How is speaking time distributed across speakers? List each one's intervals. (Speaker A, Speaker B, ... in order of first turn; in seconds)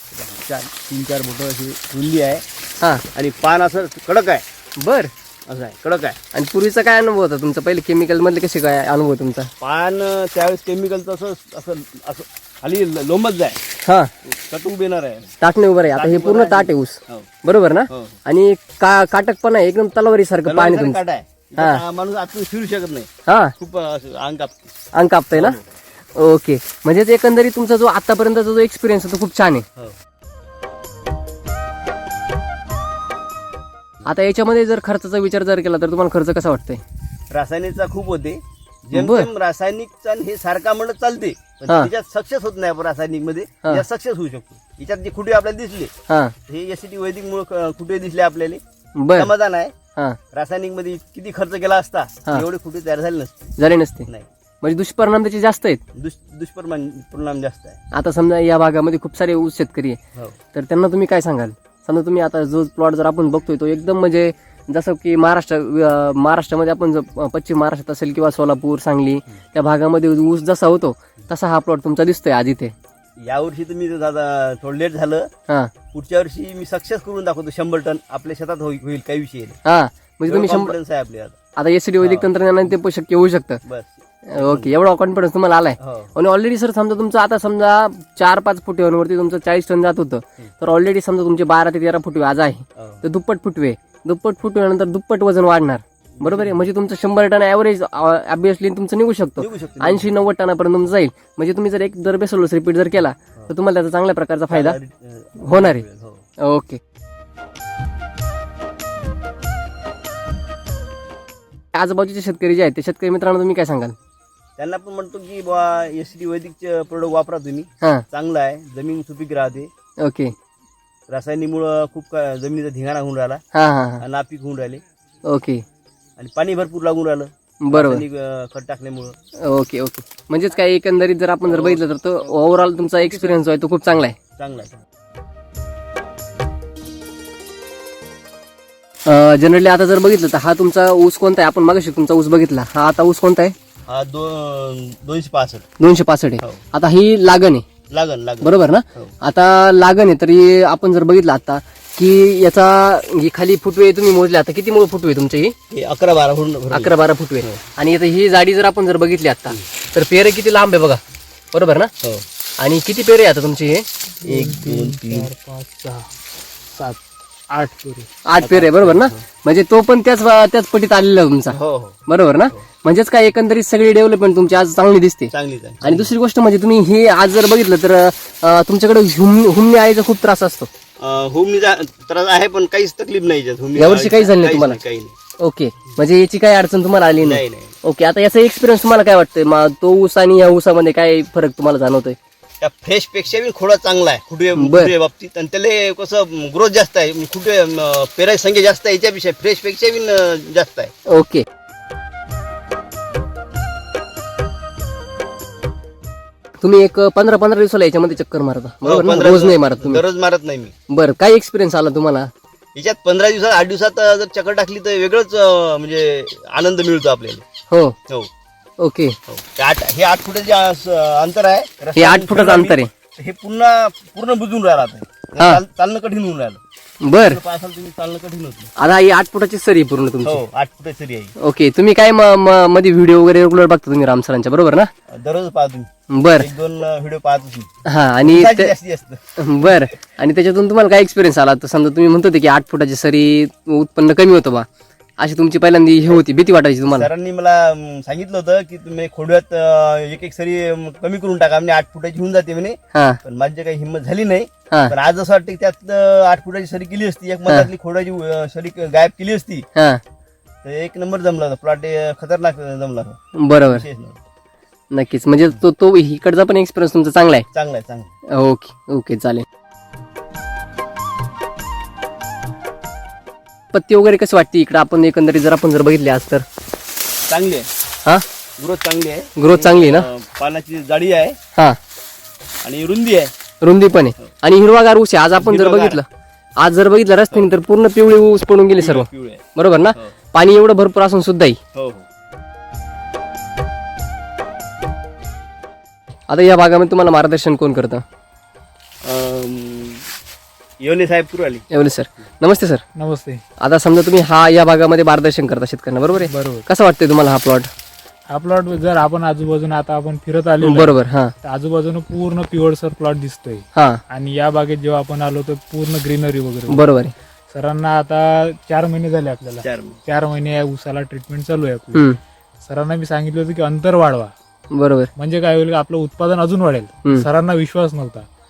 Speaker A: 0.1-2.4, 3.1-4.4, 5.5-6.2, 9.6-13.6, 14.2-15.3, 15.9-17.3, 17.9-18.2, 20.5-24.7, 25.3-25.7, 37.3-45.9, 46.5-48.6, 49.1-49.7, 50.3-53.4, 56.0-57.8, 73.2-75.3, 75.9-79.6, 80.3-81.4, 82.0-82.3, 83.7-84.7, 85.8-86.1, 92.8-93.0, 96.2-96.7, 99.4-100.1, 104.5-106.2, 114.6-119.7, 121.1-123.4, 124.0-124.8, 126.2-129.2, 131.5-131.8, 133.0-133.6, 134.4-134.8, 143.9-145.6, 147.9-149.1, 155.7-157.6, 164.2-165.3, 168.4-169.2, 171.5-172.0, 175.3-176.1, 181.0-185.2, 187.2-187.8, 192.6-200.9, 208.8-210.7, 212.8-217.4, 219.3-226.6, 227.2-228.7, 230.2-231.3, 235.1-237.7, 238.2-239.8, 246.9-259.7, 260.6-264.2, 267.5-268.1, 277.3-277.7, 278.6-281.4, 282.6-283.3, 285.4-286.0, 288.8-289.4, 291.8-292.1, 299.1-300.1, 300.8-301.6, 319.6-320.0
Speaker B: 4.8-5.1, 6.3-9.5, 13.8-14.1, 15.4-21.0, 21.6-21.8, 23.3-23.6, 24.9-25.6, 26.1-29.6, 34.0-36.8, 38.9-39.3, 46.1-46.3, 49.0-49.3, 53.6-54.1, 54.6-55.8, 57.9-60.0, 60.5-72.7, 79.7-80.8, 81.6-83.6, 84.3-104.8, 105.4-105.8, 106.4-106.8, 111.7-114.0, 120.0-120.3, 123.5-124.0, 125.3-125.6, 127.6-128.0, 129.5-134.2, 139.1-143.6, 145.8-147.7, 148.4-155.5, 156.7-161.0, 161.5-161.9, 162.6-163.9, 168.3-175.3, 175.8-180.7, 183.8-184.8, 185.4-192.2, 194.6-194.9, 201.1-201.4, 206.6-210.0, 210.9-212.3, 218.8-219.2, 222.0-222.9, 227.1-227.4, 228.8-230.4, 231.4-234.9, 236.1-236.5, 237.8-238.7, 239.4-244.7, 245.2-247.1, 252.9-253.2, 259.8-260.0, 263.4-263.9, 264.9-267.5, 268.4-269.4, 273.7-276.4, 279.4-280.1, 283.6-286.1, 286.6-291.6, 296.3-298.0, 301.7-302.8, 303.6-307.7, 310.6-311.3, 313.7-314.0, 316.7-317.1, 324.7-325.1
Speaker C: 164.2-166.1, 166.7-168.1, 303.0-303.4, 306.1-306.7, 308.3-316.9, 317.5-322.1, 322.6-324.3, 325.2-328.3